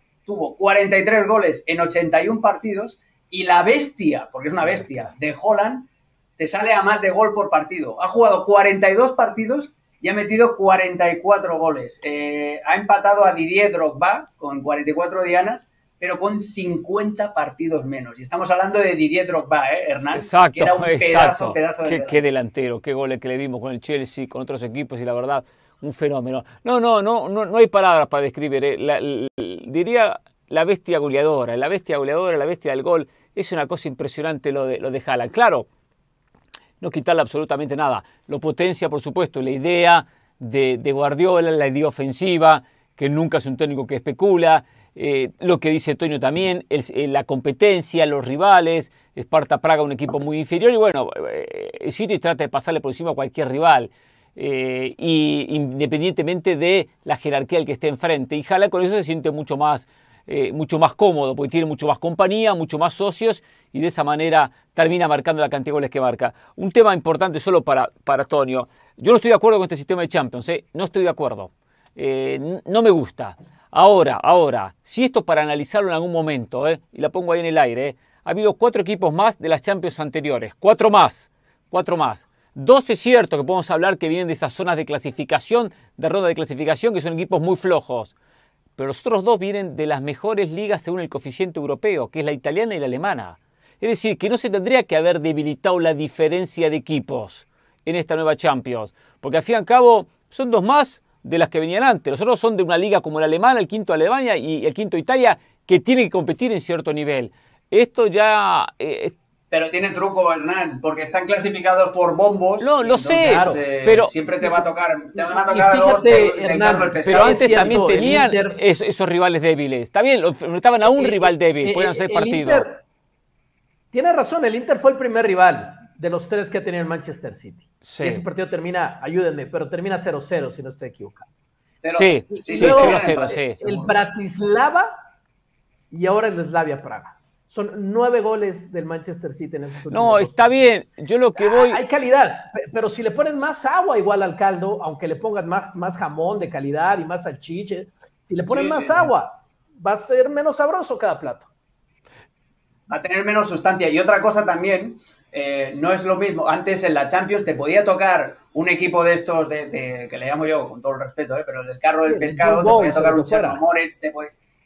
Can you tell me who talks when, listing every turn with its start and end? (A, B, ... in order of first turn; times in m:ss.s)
0:00.2-0:22.2 A
0:04.7-0:05.0 B
0:20.1-0:35.7 B
0:36.8-1:28.1 B
1:28.8-1:49.1 B
1:49.5-1:57.8 A
1:52.6-1:54.1 B
1:53.2-1:53.6 C
1:55.1-1:58.6 C
1:57.0-2:02.7 B
2:00.8-2:02.8 C
2:03.9-2:11.2 C
2:07.8-2:08.2 B
2:11.8-2:13.9 A
2:11.9-2:13.6 B
2:12.3-2:14.9 C
2:15.9-2:20.7 C
2:19.9-2:21.8 B
2:21.4-2:31.5 C
2:28.5-2:29.1 A
2:32.9-2:44.3 A
2:42.0-2:43.6 C